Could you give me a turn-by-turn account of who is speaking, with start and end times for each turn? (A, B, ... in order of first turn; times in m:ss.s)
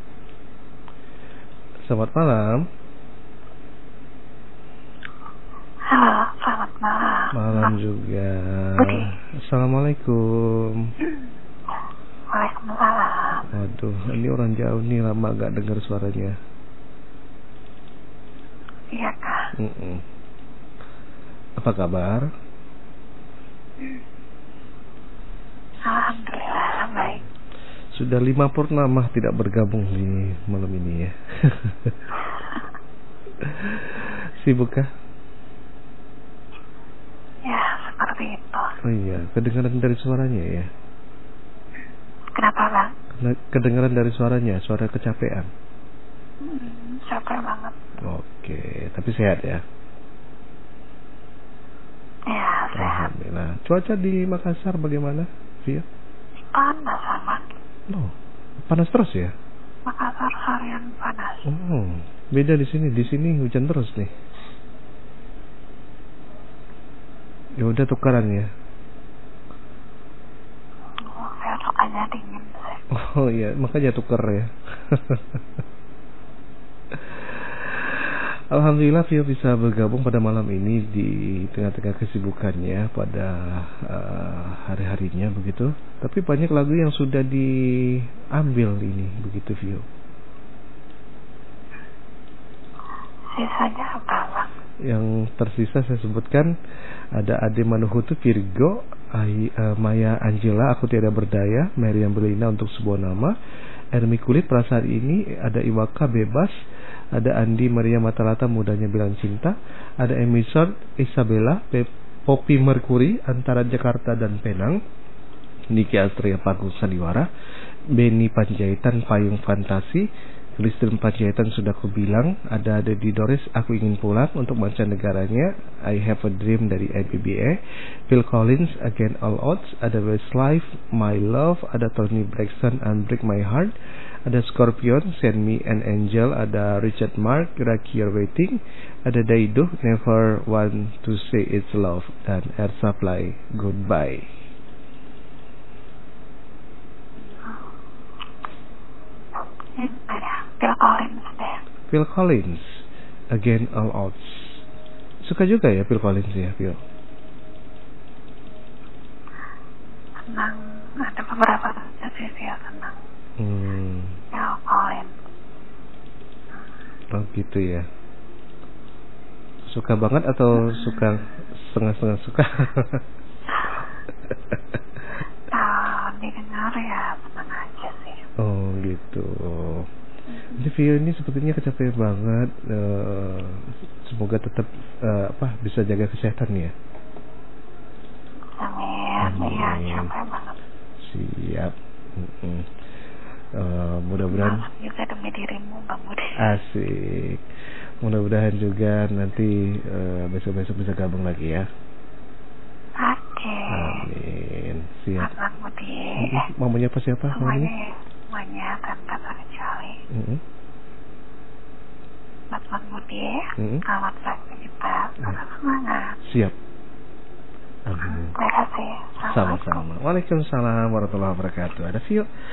0:01.9-0:02.6 A
0:05.9-0:07.8 B
0:07.3-0:10.8 A
0:08.8-0:09.1 B
0:12.3-0:13.5 B
0:13.5-0:16.3 A
0:18.9-0:19.5 B
0:19.6-0:20.0 A
0:21.6-0:22.3 A
0:25.8-0:27.2 B
0:28.0-0:32.0 A
0:33.4-0:34.9 A
0:37.4-0:38.7 B
0:38.8-0:40.7 A
0:42.3-0:42.9 B
0:43.2-0:45.5 A
0:46.4-0:47.7 B
0:48.0-0:49.6 A
0:52.3-0:53.1 B
0:52.7-0:55.8 A
0:56.5-0:57.4 B
0:57.9-0:59.3 A
0:59.8-1:01.5 B
1:01.4-1:04.1 A
1:07.6-1:08.5 A
1:11.0-1:12.8 B
1:12.9-1:15.4 A
1:17.1-1:29.8 A
1:33.3-1:34.5 B
1:34.9-1:36.5 A
1:37.2-1:43.3 A
1:43.9-1:46.5 A
1:47.1-1:54.8 A
1:55.7-1:57.2 A
1:58.0-2:00.0 A
2:00.6-2:07.6 A
2:08.1-2:13.7 A
2:14.2-2:24.2 A
2:27.3-2:27.6 B
2:29.8-2:31.6 B
2:31.9-2:32.6 A
2:33.3-2:34.6 A
2:35.2-2:36.8 A
2:40.2-2:43.0 B
2:43.4-2:44.2 A
2:44.3-2:45.1 B
2:47.1-2:47.8 A
2:49.7-2:53.0 A
2:55.5-2:58.2 B
2:58.4-2:59.9 A
3:00.3-3:00.7 B
3:00.6-3:06.7 A
3:08.6-3:10.6 B
3:09.2-3:10.1 A
3:11.0-3:12.7 A
3:13.6-3:14.6 A
3:14.3-3:16.5 B
3:16.4-3:17.4 A
3:18.0-3:21.6 A
3:23.0-3:24.1 B
3:23.7-3:25.3 A
3:25.2-3:26.5 B
3:26.2-3:27.7 A
3:27.3-3:30.0 B
3:30.1-3:30.4 A
3:32.5-3:36.2 B
3:33.6-3:33.8 A
3:36.3-3:36.5 A
3:37.8-3:38.4 A
3:38.0-3:39.8 B
3:39.2-3:42.2 A